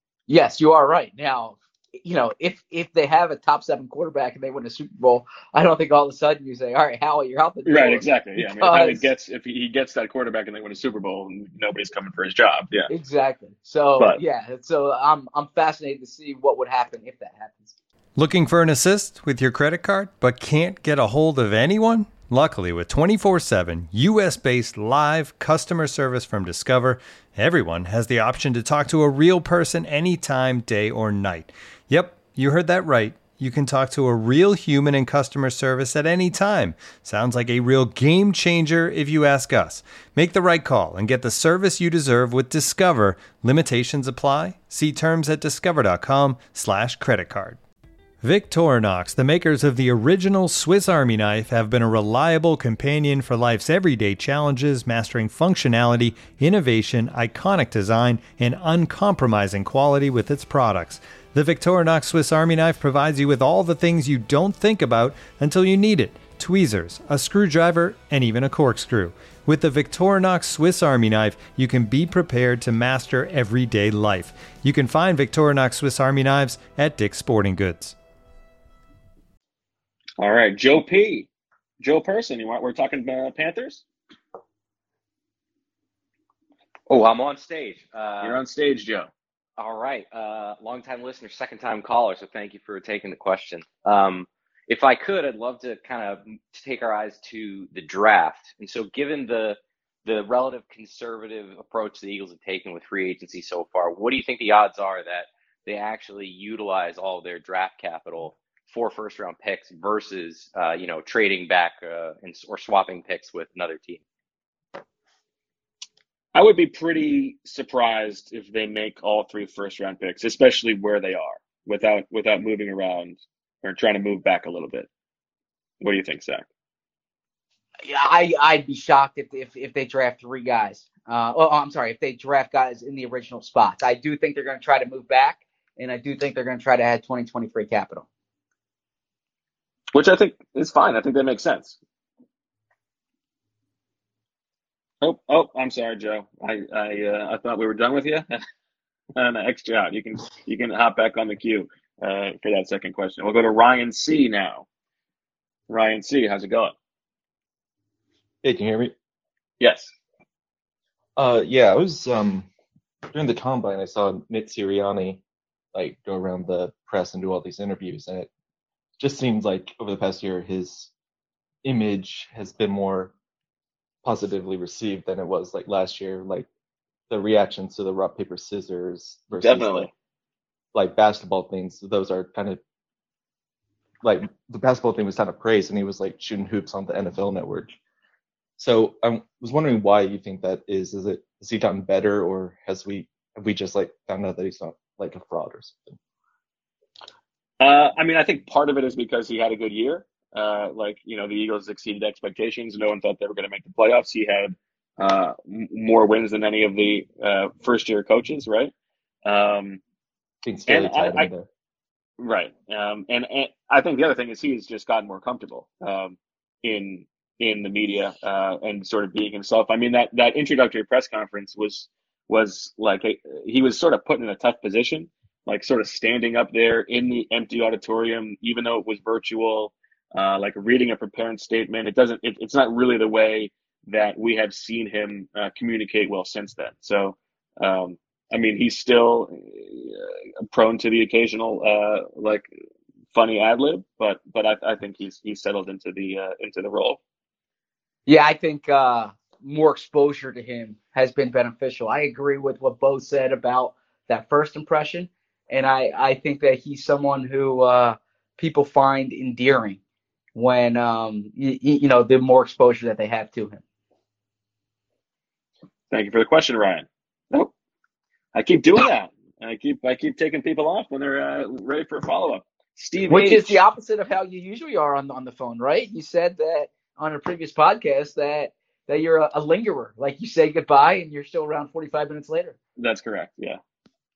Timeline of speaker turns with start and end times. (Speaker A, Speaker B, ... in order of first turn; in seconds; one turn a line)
Speaker A: 0.3-9.1
Speaker B: 7.7-12.9
Speaker A: 12.9-17.7
Speaker C: 18.2-47.6
Speaker C: 48.2-77.9
Speaker B: 80.2-81.3
Speaker B: 81.8-83.8
Speaker D: 86.9-88.4
Speaker B: 88.2-89.1
Speaker D: 89.6-114.0
Speaker B: 116.3-124.9
Speaker B: 125.8-126.4
Speaker A: 127.8-138.1
Speaker B: 139.9-141.8
Speaker B: 145.0-148.3
Speaker B: 149.2-154.6
Speaker B: 155.7-156.7
Speaker E: 158.4-158.9
Speaker B: 159.6-159.9
Speaker E: 161.2-162.5
Speaker E: 163.1-165.2
Speaker E: 165.7-168.3
Speaker E: 169.0-170.9
Speaker E: 171.6-173.1
Speaker E: 174.0-176.5
Speaker E: 177.1-179.9
Speaker B: 179.4-179.9
Speaker E: 180.7-182.6
Speaker E: 184.0-187.8
Speaker E: 188.6-195.8
Speaker B: 197.6-208.7
Speaker B: 209.2-209.8
Speaker E: 210.4-211.5
Speaker B: 210.7-211.3
Speaker B: 212.2-242.5
Speaker B: 243.1-247.0
Speaker A: 248.1-259.8
Speaker A: 260.3-263.6
Speaker B: 265.9-267.5
Speaker B: 268.3-273.6
Speaker A: 273.1-282.6
Speaker B: 282.8-283.6